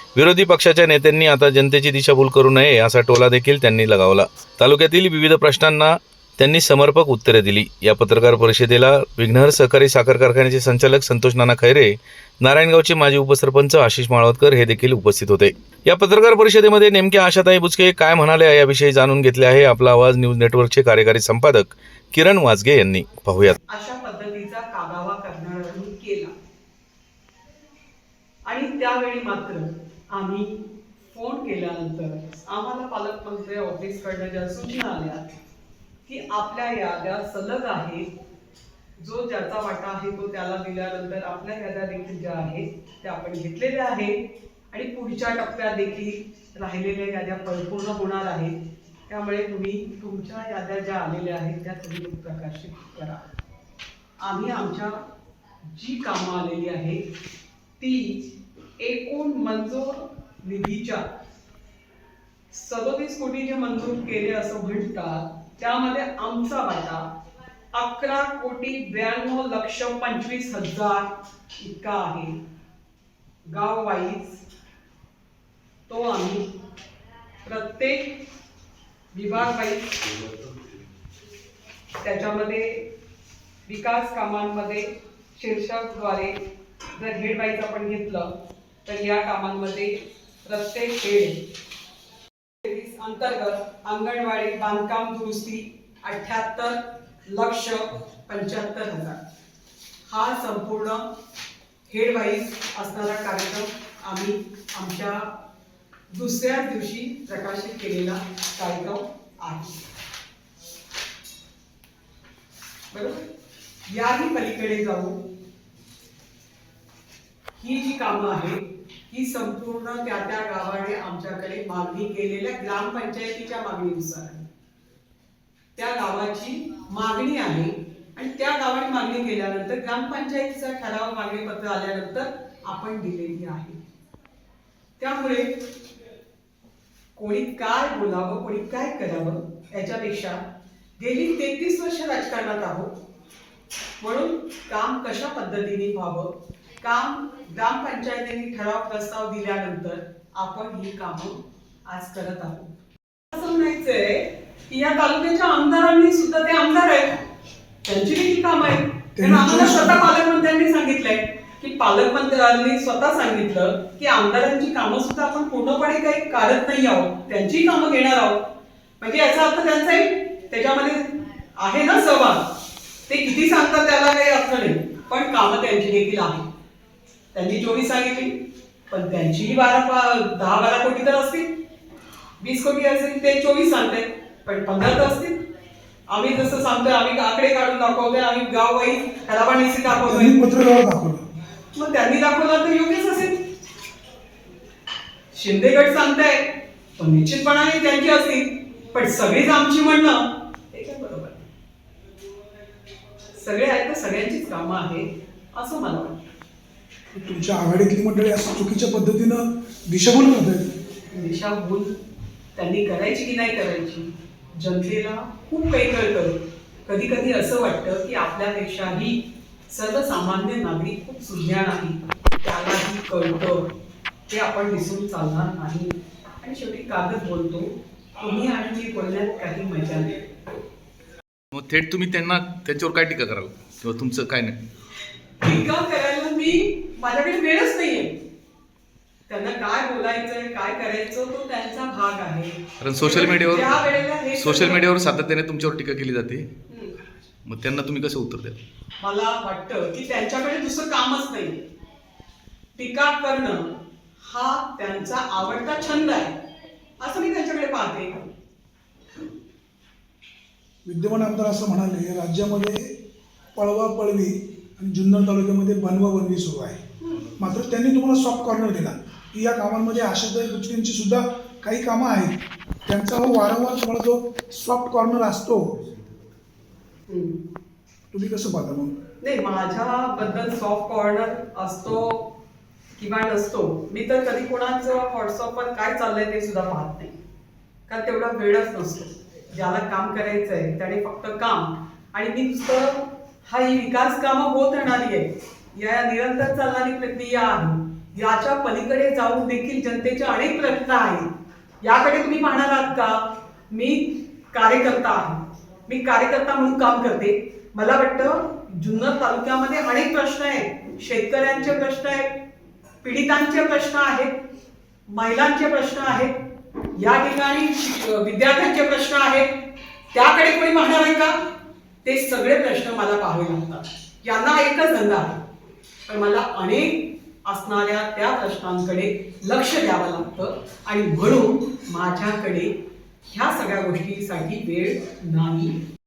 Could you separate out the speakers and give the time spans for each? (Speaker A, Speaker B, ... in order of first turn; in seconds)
Speaker A: 0.2-23.6, 231.5-234.6, 242.8-243.8, 244.3-246.5, 247.4-248.6
Speaker B: 23.7-26.3, 28.5-35.2, 36.1-38.1, 39.0-44.2, 44.7-48.6, 49.1-53.2, 54.2-55.0, 55.7-57.0, 57.8-58.2, 58.8-61.0, 62.5-67.0, 67.7-71.1, 71.6-72.4, 73.5-74.5, 75.9-76.5, 77.4-78.1, 79.1-80.0, 82.0-82.8, 83.7-86.4, 87.0-88.3, 88.9-91.4, 92.6-99.2, 100.1-101.0, 101.9-105.3, 106.1-109.8, 112.9-113.2, 113.9-115.2, 117.6-124.5, 125.8-133.8, 135.0-135.6, 137.2-140.4, 141.0-143.0, 144.0-152.7, 153.3-157.2, 157.8-168.4, 169.0-172.5, 173.1-176.5, 177.3-178.3, 178.9-181.5, 182.4-185.4, 186.1-190.4, 191.7-193.4, 195.3-201.4, 203.3-206.2, 211.1-212.0, 212.6-223.7, 224.3-230.2, 235.4-238.2, 239.3-244.9, 246.7-247.0, 249.0-251.6, 252.8-253.7, 254.2-256.4, 257.0-258.2, 267.0-267.3, 277.1-277.4, 279.2-282.3, 283.0-287.1, 287.9-301.3, 301.8-303.2, 303.7-312.3, 313.0-314.3, 315.1-316.4, 316.9-319.5, 320.1-321.4, 322.0-325.4, 326.1-332.8, 333.3-335.8
Speaker C: 159.2-160.1, 190.0-191.2, 207.2-210.7, 260.9-262.9, 263.6-266.8, 267.4-275.8, 278.1-278.9